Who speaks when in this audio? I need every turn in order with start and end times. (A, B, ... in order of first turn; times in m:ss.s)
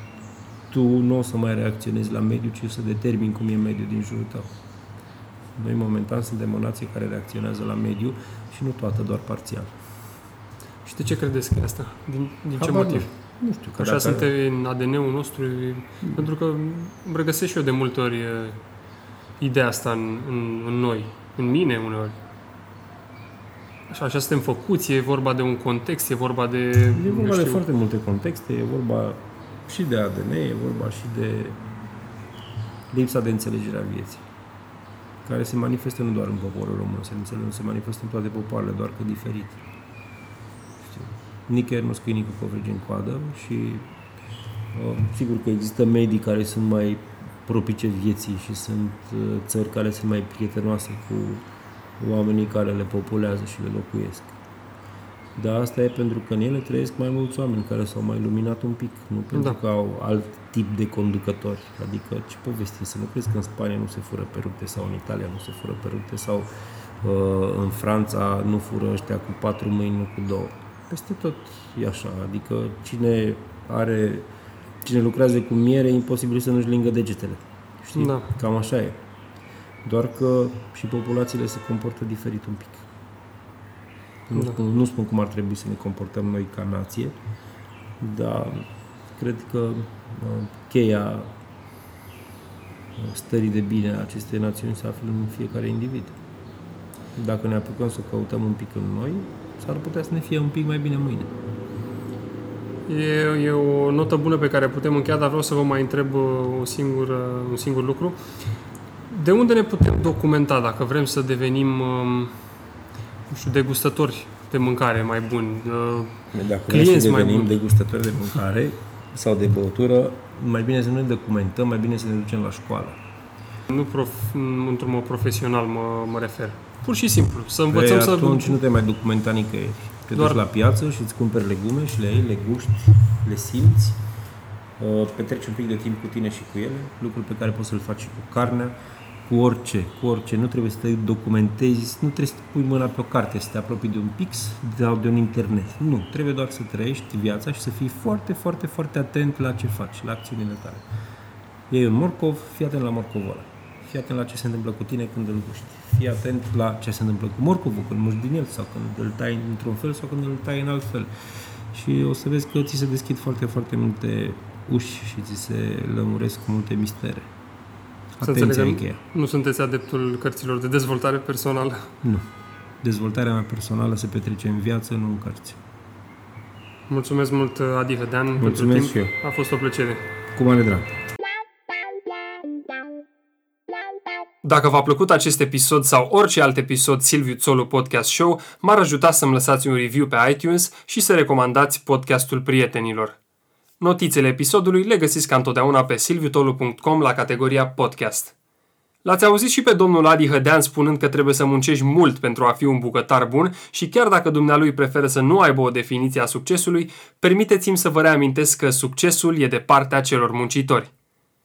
0:00.7-0:04.5 A
0:05.6-0:09.7 A
0:10.8-0:13.1 B
0:12.6-0:14.3 A
0:13.8-0:18.6 B
0:19.4-0:22.2 B
0:23.9-0:27.6 B
0:26.9-0:31.6 A
0:32.9-0:34.2 A
0:35.2-0:39.6 A
0:40.8-0:43.9 A
0:44.7-0:51.4 A
0:52.0-0:54.4 A
0:55.4-1:06.5 A
1:07.0-1:14.3 A
1:14.8-1:19.0 A
1:18.0-1:18.3 B
1:19.8-1:22.9 A
1:24.3-1:27.2 A
1:28.0-1:31.3 A
1:33.0-1:36.2 A
1:37.2-1:41.4 A
1:42.9-1:48.2 B
1:49.1-1:52.4 B
1:53.3-1:56.2 B
1:56.3-2:03.0 A
1:56.7-1:57.6 B
2:03.7-2:08.6 B
2:07.7-2:14.0 A
2:10.1-2:10.4 B
2:14.8-2:18.8 A
2:19.3-2:30.8 A
2:31.7-2:41.1 A
2:41.7-2:47.3 A
2:48.2-2:49.0 A
2:48.2-2:51.9 B
2:52.8-2:55.6 A
2:56.9-3:00.0 B
2:58.4-2:59.1 A
3:00.4-3:00.9 A
3:04.4-3:13.2 B
3:13.8-3:18.3 B
3:19.0-3:30.9 B